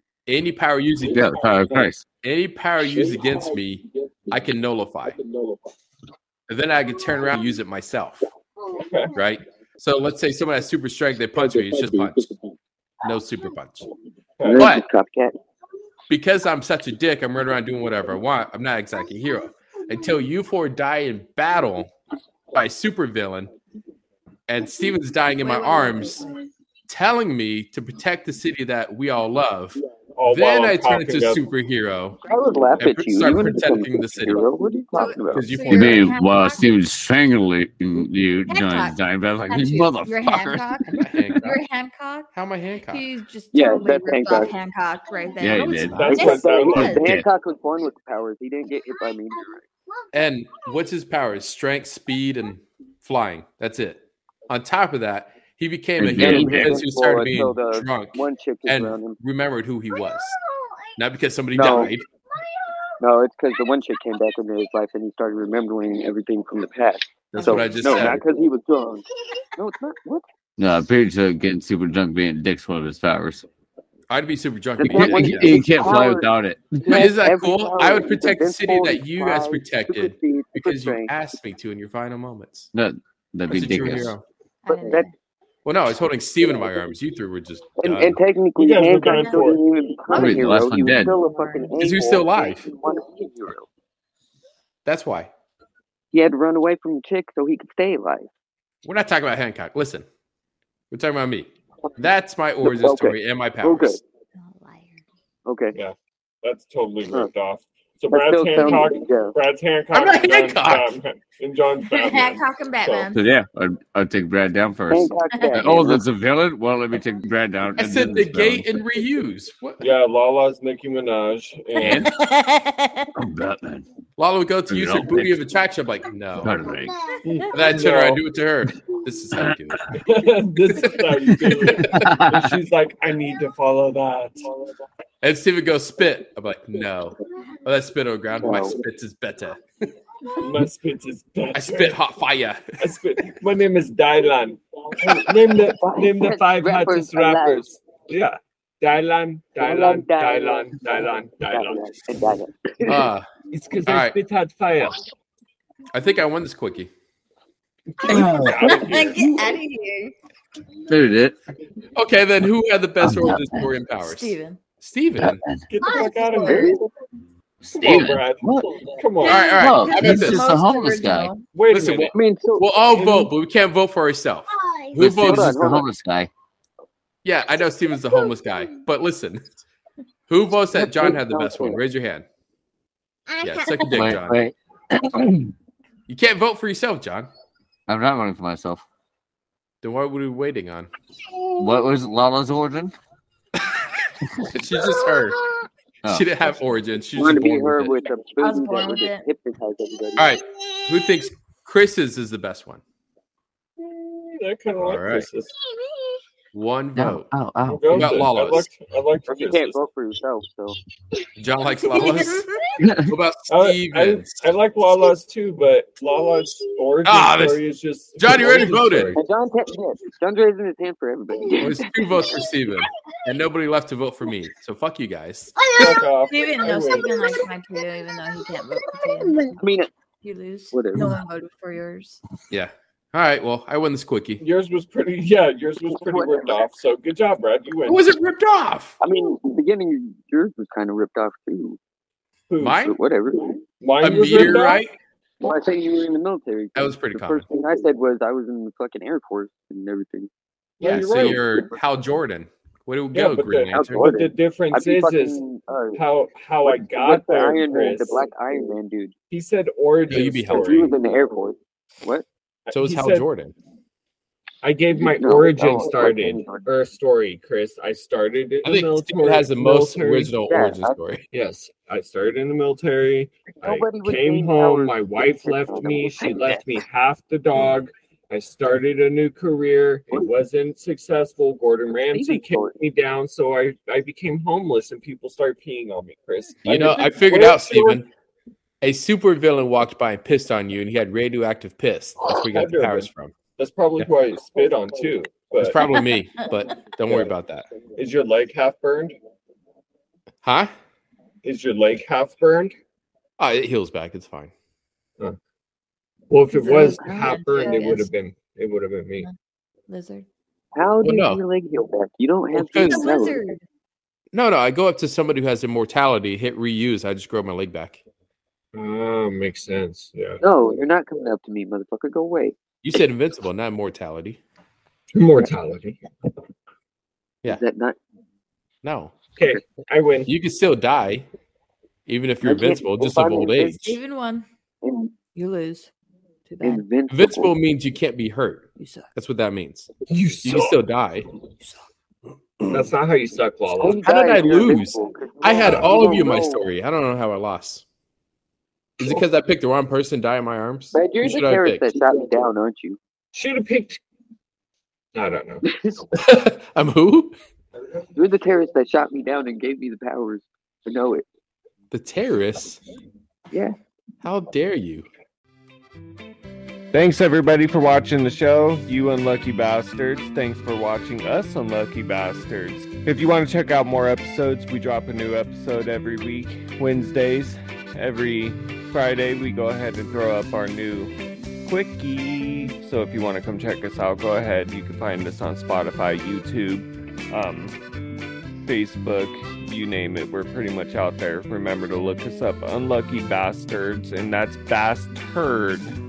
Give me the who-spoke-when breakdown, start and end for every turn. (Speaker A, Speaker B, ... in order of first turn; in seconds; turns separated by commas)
Speaker A: 0.3-1.4, Speaker B: 1.1-2.0, Speaker A: 2.2-5.2, Speaker A: 6.5-8.3, Speaker C: 8.7-9.1, Speaker A: 9.1-12.3, Speaker A: 13.0-13.9, Speaker C: 14.4-14.7, Speaker D: 14.4-15.3, Speaker A: 14.6-14.8, Speaker A: 16.1-21.9, Speaker A: 22.5-23.5, Speaker A: 24.5-26.2, Speaker E: 25.4-26.4, Speaker A: 26.9-32.2, Speaker C: 30.1-31.4, Speaker D: 32.2-35.5, Speaker A: 32.8-34.4, Speaker E: 34.9-36.7, Speaker A: 35.3-36.1, Speaker B: 35.7-40.6, Speaker E: 38.5-39.0, Speaker E: 39.5-47.0, Speaker A: 40.9-41.6, Speaker A: 42.3-43.1, Speaker D: 43.5-44.5, Speaker B: 45.4-46.1, Speaker A: 45.7-46.0, Speaker C: 45.9-46.9, Speaker D: 46.0-49.6, Speaker B: 46.7-47.2, Speaker A: 50.1-60.4, Speaker B: 56.0-56.8, Speaker D: 56.2-59.2, Speaker A: 61.0-62.1, Speaker D: 61.5-61.9, Speaker D: 63.0-69.0, Speaker A: 67.3-68.2, Speaker E: 67.3-68.0, Speaker D: 69.5-70.2, Speaker B: 70.6-73.5, Speaker A: 74.1-75.5, Speaker D: 74.8-76.3, Speaker B: 74.9-76.8, Speaker D: 76.8-81.1, Speaker A: 76.8-82.7, Speaker B: 82.7-84.1, Speaker A: 83.5-84.2, Speaker E: 84.6-85.1, Speaker D: 84.7-85.1, Speaker A: 85.6-88.2, Speaker D: 87.8-93.7, Speaker C: 88.5-89.6, Speaker E: 89.1-89.5, Speaker B: 90.1-91.2, Speaker E: 90.9-91.7, Speaker A: 91.8-92.7, Speaker A: 94.8-95.3, Speaker D: 96.1-98.3, Speaker A: 98.8-100.0, Speaker A: 100.9-104.0, Speaker D: 102.6-104.0, Speaker E: 104.4-105.0, Speaker D: 105.5-105.7, Speaker C: 105.7-113.1, Speaker D: 108.1-109.3, Speaker A: 109.9-111.0, Speaker E: 112.0-113.2, Speaker B: 113.1-118.7, Speaker D: 114.9-116.0, Speaker E: 115.3-115.6, Speaker A: 117.8-119.9, Speaker C: 119.8-122.1, Speaker B: 121.8-122.1, Speaker E: 121.8-123.1, Speaker B: 123.2-123.8, Speaker A: 124.2-126.6, Speaker B: 124.7-125.4, Speaker B: 126.4-126.9, Speaker C: 127.2-128.2, Speaker A: 127.5-129.8, Speaker C: 130.0-134.4, Speaker A: 131.7-132.1, Speaker B: 131.7-132.5, Speaker A: 135.2-139.6, Speaker D: 138.4-138.8, Speaker C: 140.4-142.0, Speaker A: 141.5-142.6, Speaker C: 142.8-151.9, Speaker D: 145.7-147.6, Speaker D: 149.6-153.1, Speaker A: 152.8-153.2, Speaker C: 153.5-155.1, Speaker A: 153.8-154.2, Speaker A: 155.9-156.9, Speaker C: 158.1-159.6, Speaker B: 158.1-158.7, Speaker E: 158.1-160.1, Speaker B: 160.9-161.4, Speaker A: 161.9-165.4, Speaker B: 163.0-163.7, Speaker E: 163.9-164.6, Speaker B: 165.2-165.6, Speaker C: 165.7-166.8, Speaker E: 166.3-166.7, Speaker D: 166.4-166.8, Speaker B: 167.6-168.8, Speaker C: 167.7-169.5, Speaker E: 169.2-171.4, Speaker A: 169.2-170.4, Speaker B: 169.4-171.3, Speaker C: 171.5-172.1, Speaker A: 171.7-175.5, Speaker D: 172.1-172.7, Speaker C: 172.9-173.3, Speaker B: 174.9-176.3, Speaker D: 175.1-175.9, Speaker A: 177.2-179.4, Speaker A: 180.3-182.2, Speaker D: 180.7-181.8, Speaker A: 183.4-184.4, Speaker B: 183.9-185.5, Speaker A: 186.1-187.3, Speaker B: 187.9-188.8, Speaker A: 189.8-190.9, Speaker B: 191.6-192.9, Speaker A: 194.5-195.4, Speaker B: 196.0-196.4, Speaker A: 196.1-197.9, Speaker D: 197.2-200.3, Speaker E: 198.4-199.2, Speaker A: 200.2-202.8, Speaker C: 203.8-205.6, Speaker A: 204.8-205.3, Speaker A: 206.5-207.3, Speaker B: 206.9-208.0, Speaker C: 207.7-209.8, Speaker A: 207.9-208.7, Speaker D: 209.3-210.8, Speaker A: 211.4-212.5, Speaker C: 212.0-212.2, Speaker B: 212.8-213.1, Speaker A: 213.1-214.6, Speaker C: 213.5-219.2, Speaker A: 217.0-217.6, Speaker A: 218.2-219.1, Speaker D: 219.1-222.4, Speaker A: 221.6-225.9, Speaker C: 225.8-227.4, Speaker E: 226.3-229.6, Speaker D: 229.6-229.9, Speaker E: 230.2-232.2, Speaker D: 230.7-231.1, Speaker A: 232.5-234.4, Speaker C: 234.4-238.0, Speaker D: 235.9-236.7, Speaker A: 237.8-238.9, Speaker D: 239.0-241.8, Speaker C: 242.5-242.7, Speaker A: 242.6-243.0, Speaker D: 242.7-243.6, Speaker C: 243.8-244.8, Speaker A: 244.0-244.9, Speaker D: 245.4-250.3, Speaker A: 246.7-247.4, Speaker C: 250.8-251.4, Speaker A: 250.8-254.1, Speaker C: 253.1-255.4, Speaker D: 253.7-256.0, Speaker C: 255.9-258.2, Speaker D: 256.6-259.1, Speaker C: 259.3-260.9, Speaker A: 260.1-260.9, Speaker D: 260.5-262.2, Speaker C: 262.6-263.3, Speaker A: 262.7-263.5, Speaker C: 264.6-270.3, Speaker D: 265.0-266.6, Speaker A: 268.6-271.3, Speaker D: 270.5-271.0, Speaker C: 271.3-288.0, Speaker D: 273.6-276.6, Speaker D: 282.1-282.7, Speaker A: 286.6-288.1, Speaker A: 288.8-293.3, Speaker C: 292.5-295.8, Speaker A: 295.6-297.7, Speaker C: 297.9-299.1, Speaker A: 300.4-300.7, Speaker C: 301.4-302.7, Speaker A: 303.4-304.5, Speaker C: 306.3-309.3, Speaker E: 306.5-308.1, Speaker E: 309.9-310.2, Speaker D: 310.7-313.4, Speaker A: 311.0-311.4, Speaker A: 312.5-313.1, Speaker E: 312.8-313.6, Speaker A: 314.3-318.0, Speaker C: 318.7-320.4, Speaker D: 320.4-322.5, Speaker A: 322.8-324.4, Speaker C: 325.1-326.0, Speaker D: 327.4-328.0, Speaker A: 328.8-329.1, Speaker C: 329.4-330.3, Speaker A: 330.2-331.3, Speaker A: 332.1-334.0, Speaker D: 332.4-334.0, Speaker E: 333.8-334.4, Speaker D: 334.8-335.1, Speaker E: 335.3-335.9, Speaker E: 336.5-336.9, Speaker D: 336.6-337.5, Speaker A: 337.1-339.9, Speaker E: 338.8-339.1, Speaker C: 340.1-340.8, Speaker A: 340.4-341.3, Speaker C: 342.7-344.0, Speaker D: 343.8-346.6, Speaker A: 344.0-347.8, Speaker A: 349.0-351.8, Speaker D: 350.9-353.0, Speaker C: 353.3-354.0, Speaker C: 355.1-355.6, Speaker D: 355.6-356.1, Speaker A: 356.1-357.3, Speaker D: 358.1-361.2, Speaker A: 361.9-362.8, Speaker A: 364.2-365.1, Speaker F: 366.9-380.9, Speaker F: 381.7-386.7, Speaker F: 387.3-387.7, Speaker F: 388.7-389.2, Speaker F: 389.8-395.8